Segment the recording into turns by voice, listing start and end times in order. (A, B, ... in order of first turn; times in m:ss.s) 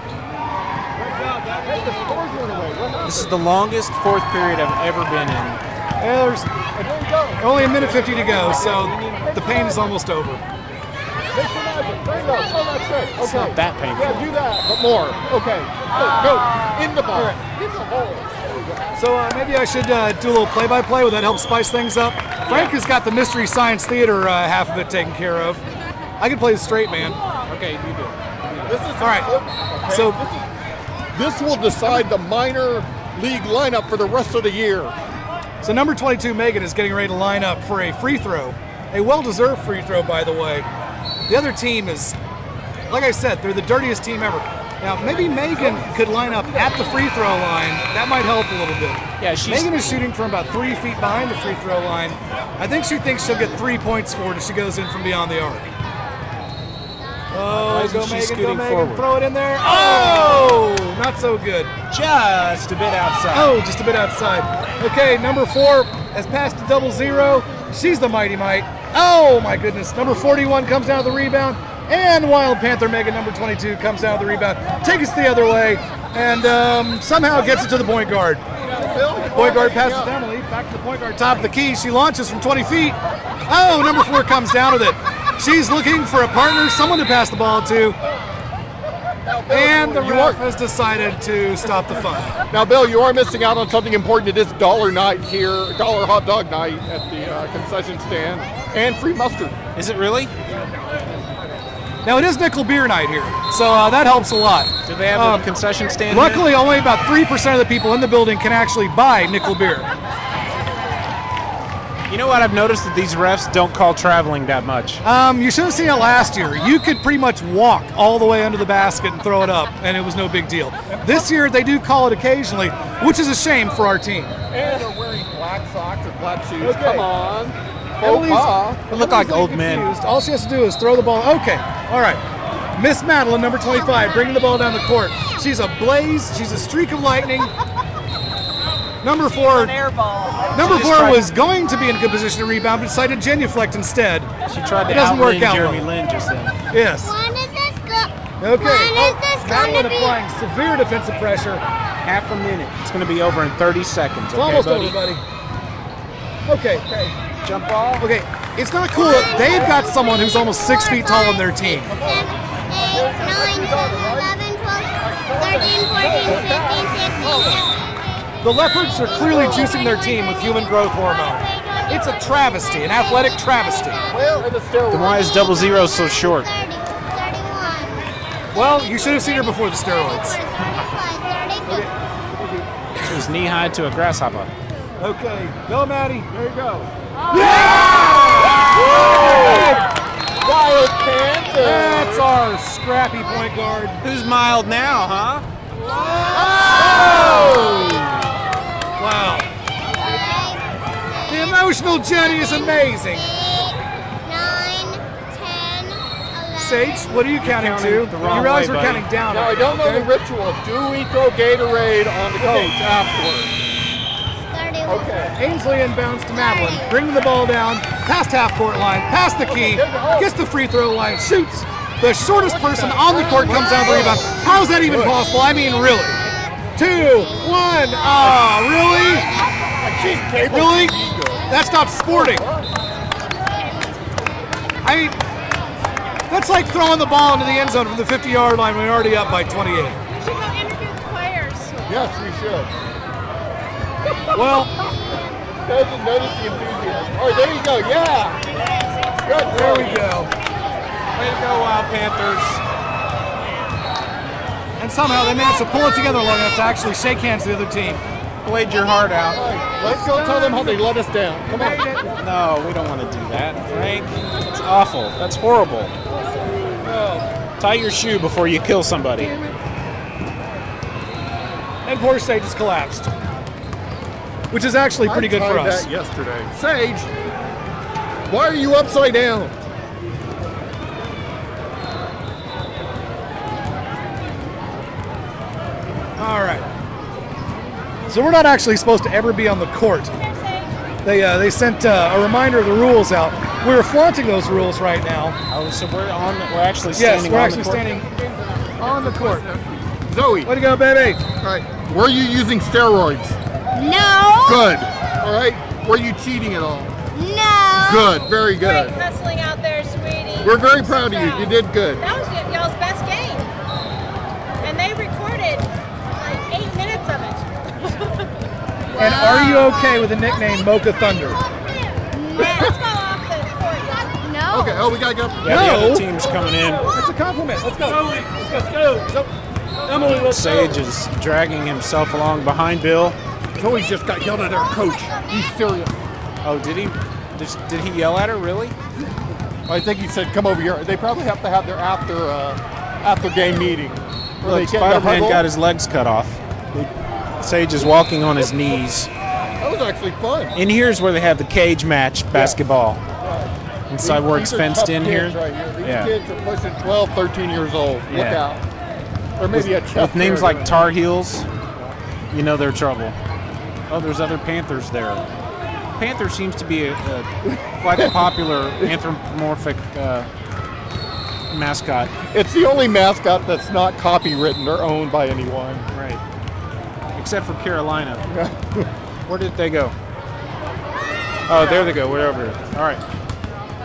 0:01.0-0:02.4 A
0:01.5-0:03.3 B
0:03.0-0:05.6 C
0:06.0-0:10.4 A
0:06.8-0:09.9 B
0:11.3-0:18.8 B
0:13.2-0:14.3 C
0:17.1-0:17.4 A
0:19.0-0:25.6 A
0:22.4-0:22.8 C
0:26.2-0:27.2 A
0:27.4-0:28.9 C
0:28.6-0:30.5 B
0:29.0-0:29.3 A
0:29.9-0:30.2 A
0:31.1-0:34.9 B
0:35.6-0:40.7 A
0:41.3-0:42.2 A
0:42.9-0:55.7 A
0:45.0-0:47.2 B
0:49.2-0:49.7 C
0:57.3-1:01.7 A
0:57.5-0:59.1 C
1:01.9-1:03.6 C
1:03.3-1:18.4 A
1:18.6-1:20.1 B
1:19.2-1:28.0 A
1:29.2-1:30.4 B
1:29.5-1:32.4 A
1:32.5-1:39.6 B
1:39.7-1:40.3 C
1:42.0-1:45.5 A
1:44.8-1:46.5 C
1:46.1-1:49.9 A
1:52.1-1:55.0 C
1:55.0-2:04.4 A
2:00.9-2:01.3 B
2:04.5-2:08.8 B
2:06.6-2:07.1 A
2:08.0-2:12.2 A
2:08.9-2:09.9 C
2:12.8-2:17.5 A
2:19.0-2:19.9 A
2:20.5-2:24.3 A
2:20.5-2:21.3 C
2:24.4-2:26.6 C
2:24.8-2:25.9 A
2:26.7-2:27.2 A
2:27.0-2:30.2 D
2:28.4-2:31.6 A
2:32.0-2:35.0 C
2:34.3-2:35.2 A
2:36.5-2:36.9 A
2:36.8-2:37.1 B
2:37.4-2:38.1 C
2:38.0-2:42.0 A
2:38.9-2:47.8 D
2:39.0-2:39.8 B
2:41.9-2:44.4 B
2:45.0-2:47.7 B
2:48.4-2:54.0 A
2:49.2-2:49.7 B
2:54.1-2:55.4 B
2:54.9-2:56.5 C
2:55.2-2:58.1 D
2:58.5-3:00.4 A
3:00.2-3:01.9 D
3:01.6-3:01.9 A
3:03.1-3:04.5 C
3:05.0-3:06.3 A
3:06.3-3:09.8 B
3:07.3-3:09.8 A
3:10.4-3:12.3 B
3:11.6-3:14.0 A
3:14.0-3:15.4 C
3:15.8-3:18.3 A
3:16.3-3:18.2 B
3:19.0-3:19.5 A
3:19.9-3:27.3 D
3:21.3-3:23.3 A
3:26.6-3:30.1 A
3:27.4-3:29.1 C
3:29.2-3:33.5 B
3:32.4-3:32.7 A
3:34.5-3:35.3 D
3:34.8-3:35.3 B
3:35.3-3:46.2 A
3:36.3-3:37.0 D
3:39.5-3:40.3 B
3:42.2-3:45.2 B
3:46.8-3:49.3 A
3:49.2-3:50.0 D
3:49.7-3:51.5 B
3:50.4-3:52.4 A
3:52.1-3:52.7 B
3:54.8-3:55.2 A
3:56.3-4:00.0 A
4:00.1-4:01.8 E
4:01.9-4:02.7 B
4:04.3-4:04.7 A
4:05.6-4:08.4 B
4:09.2-4:10.1 B
4:09.5-4:10.3 A
4:11.2-4:12.6 C
4:14.8-4:18.0 A
4:18.4-4:19.4 C
4:19.3-4:21.8 B
4:19.8-4:20.8 A
4:21.4-4:22.1 A
4:22.2-4:25.9 C
4:26.8-4:27.3 A
4:27.6-4:29.3 C
4:29.2-4:29.6 B
4:31.8-4:33.1 A
4:34.5-4:35.9 A
4:35.0-4:37.1 B
4:38.3-4:39.5 B
4:46.2-4:46.6 A
4:48.0-4:50.1 A
4:50.1-4:50.7 E
4:51.0-4:55.4 A
4:55.5-4:57.9 C
4:56.9-4:58.1 A
4:58.4-5:00.5 B
4:58.8-4:59.5 A
5:00.4-5:01.2 A
5:01.4-5:03.4 B
5:03.7-5:04.7 D
5:04.4-5:07.0 B
5:07.1-5:08.2 D
5:07.8-5:09.0 B
5:08.6-5:13.5 E
5:10.4-5:12.0 B
5:14.6-5:18.3 E
5:19.0-5:19.9 D
5:19.0-5:21.4 A
5:22.1-5:22.6 D
5:22.4-5:24.2 E
5:22.4-5:22.8 B
5:24.2-5:25.0 D
5:24.5-5:25.9 B
5:25.4-5:26.9 C
5:25.4-5:26.1 A
5:26.9-5:29.0 B
5:27.6-5:29.3 A
5:29.9-5:30.6 A
5:30.1-5:33.2 C
5:33.5-5:35.9 B
5:36.4-5:38.8 C
5:39.7-5:45.4 B
5:44.4-5:49.1 C
5:49.6-5:50.5 B
5:50.5-5:53.0 C
5:52.3-5:52.6 B
5:53.2-5:58.6 B
5:53.9-5:56.1 C
5:58.1-5:58.4 C
5:59.4-6:00.9 B
5:59.5-6:01.5 C
6:02.3-6:03.2 C
6:03.9-6:05.2 C
6:06.0-6:10.3 C
6:07.4-6:09.0 B
6:11.5-6:12.1 C
6:12.3-6:15.9 B
6:15.9-6:16.2 C
6:17.2-6:18.3 C
6:18.3-6:18.9 B
6:19.3-6:19.9 C
6:21.5-6:23.0 C
6:21.5-6:21.9 B